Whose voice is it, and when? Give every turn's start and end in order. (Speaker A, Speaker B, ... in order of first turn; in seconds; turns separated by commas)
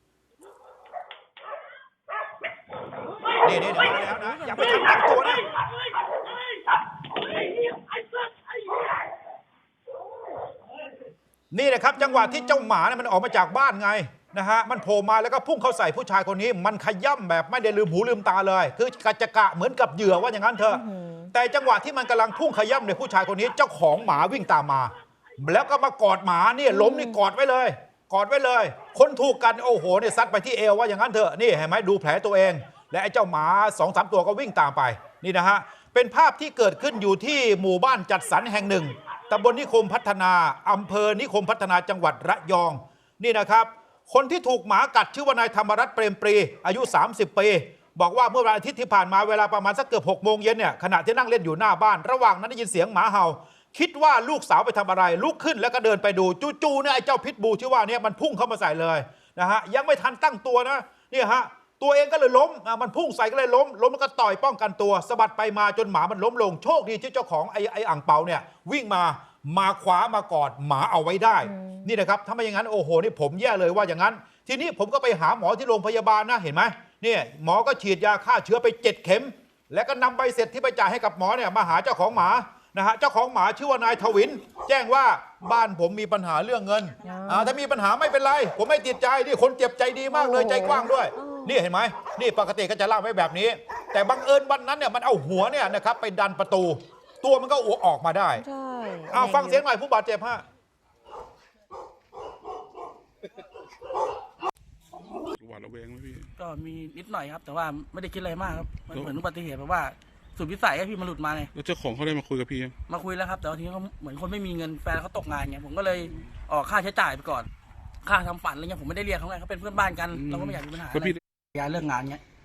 Speaker A: 3.4-5.4, Speaker B: 3.7-4.9, Speaker A: 11.5-98.4, Speaker B: 12.0-12.7, Speaker B: 20.7-21.3, Speaker B: 26.7-27.2, Speaker B: 71.5-71.9, Speaker B: 87.0-87.5, Speaker B: 90.1-91.6, Speaker B: 98.4-99.6, Speaker A: 99.1-100.4, Speaker C: 105.4-106.3, Speaker D: 106.4-111.5, Speaker C: 111.5-112.8, Speaker D: 112.9-117.5, Speaker D: 118.0-122.2, Speaker C: 120.2-121.2